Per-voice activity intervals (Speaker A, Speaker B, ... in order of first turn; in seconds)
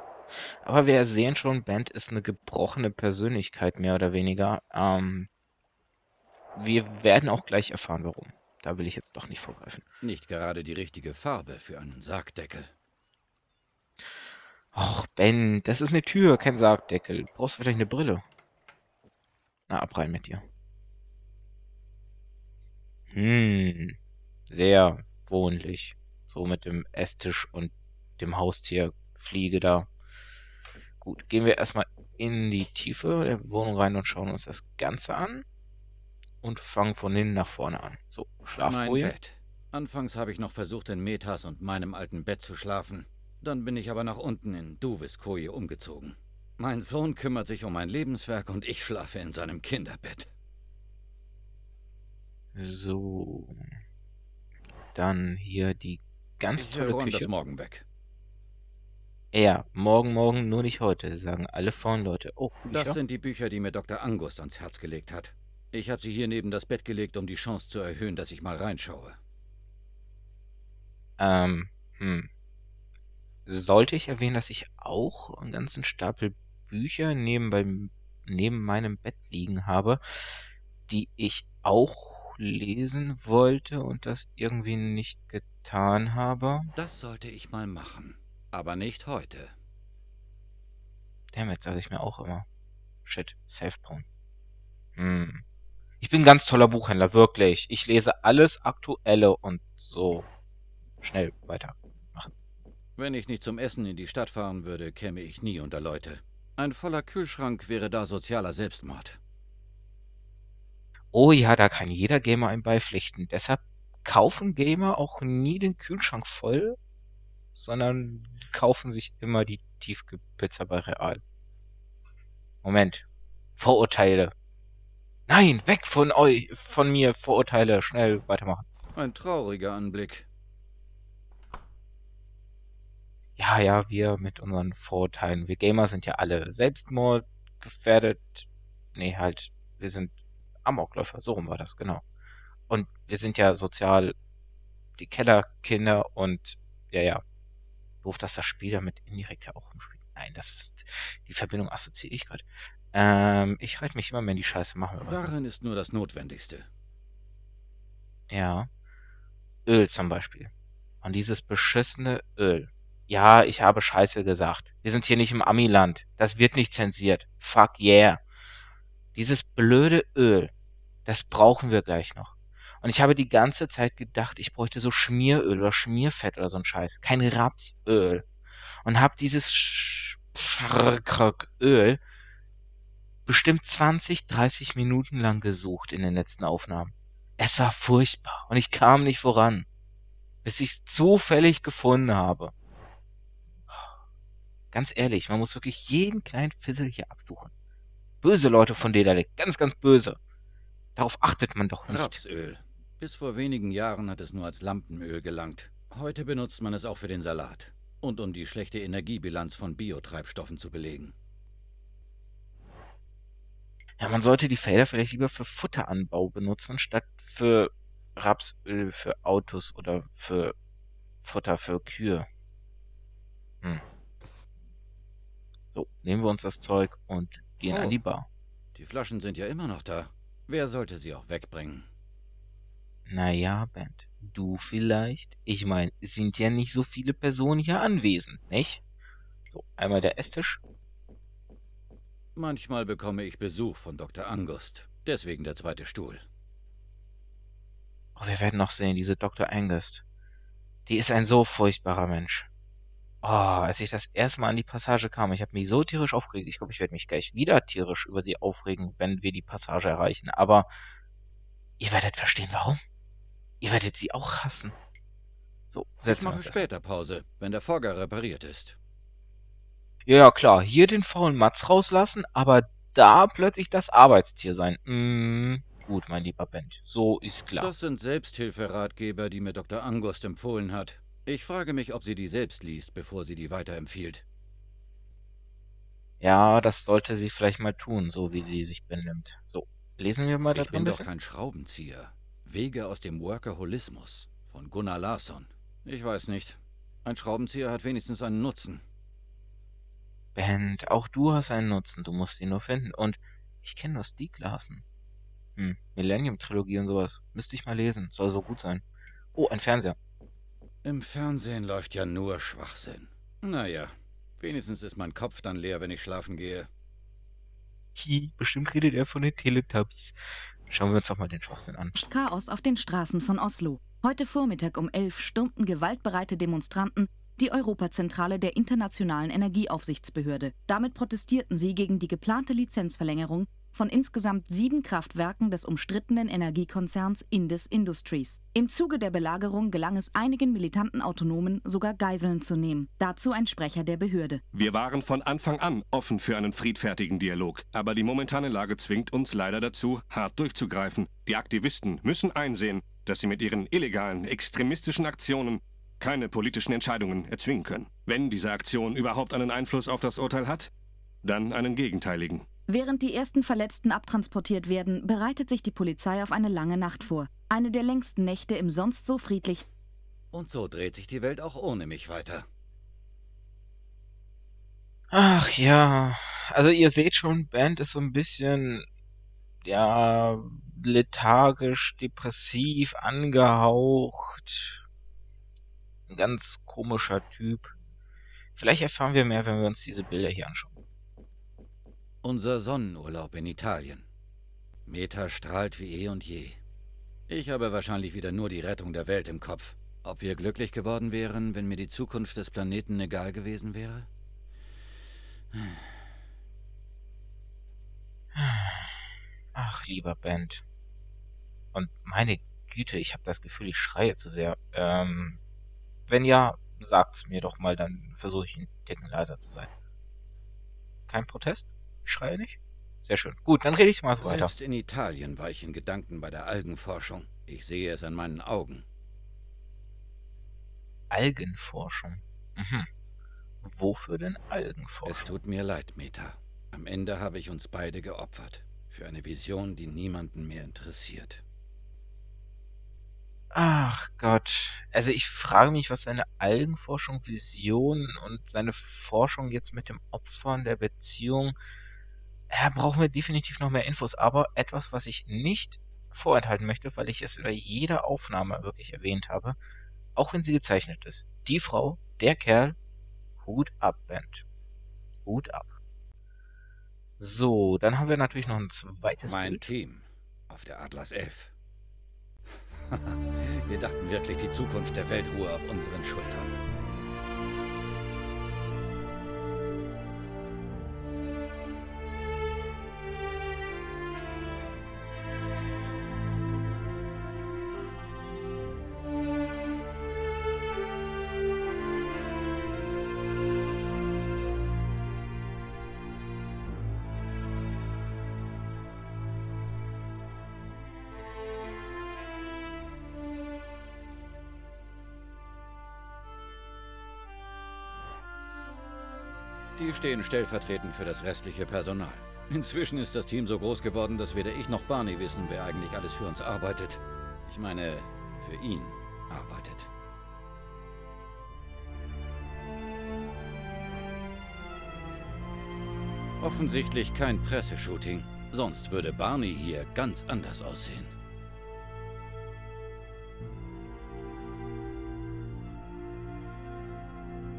Speaker A: 0.6-5.3, 6.5-9.8, 14.7-18.2, 19.7-20.4, 23.1-23.9, 24.5-29.9, 31.0-35.4, 36.4-39.1, 52.5-53.6, 54.9-57.3, 59.3-63.0, 71.2-72.3, 73.5-80.0, 80.9-86.7, 91.3-92.5, 93.0-94.0, 95.0-95.4, 96.0-100.3, 101.0-102.3, 111.1-116.8, 117.5-121.2, 122.6-123.0, 123.6-124.3, 125.3-128.7, 133.4-142.0, 142.7-144.1, 145.0-147.2, 148.0-155.3, 158.3-158.7, 159.7-160.5, 161.0-168.2, 169.1-170.5, 171.1-178.2, 178.8-182.0, 183.2-189.7, 190.4-192.5, 194.7-197.5, 198.2-200.2, 200.9-202.2, 214.0-220.5, 221.2-222.3, 225.7-228.3, 233.1-238.8, 239.5-240.6, 248.2-250.0, 250.8-252.5, 253.2-260.7, 261.8-262.8, 263.6-264.7, 265.7-266.6, 270.1-277.7, 286.2-291.1, 300.3-304.8, 305.6-308.8, 309.3-309.9, 317.9-321.9, 375.1-378.8, 379.6-384.8, 386.1-387.8, 388.5-390.8, 408.3-409.0, 409.5-410.6, 411.7-415.4, 416.1-419.7, 421.1-424.5, 431.1-432.9, 433.6-435.4, 443.5-451.6, 452.5-459.6, 460.1-462.8, 463.4-464.4, 465.2-465.8, 467.2-469.7
Speaker B: 10.0-12.7, 38.6-50.3, 56.6-57.8, 62.7-69.2, 86.8-89.5, 103.0-109.2, 128.9-130.3, 155.0-156.7, 201.9-211.1, 227.7-228.0, 228.7-231.9, 242.3-246.2, 266.1-268.8, 277.6-284.2, 290.5-298.8, 310.8-316.7, 370.3-372.4, 392.2-394.1, 394.9-396.6, 397.3-404.1, 405.5-406.0, 424.2-428.9, 435.0-441.4, 469.2-471.5, 472.5-476.6, 509.8-519.9, 526.4-531.1
Speaker C: 321.9-344.4, 362.7-369.6
Speaker D: 344.5-360.7, 361.2-362.4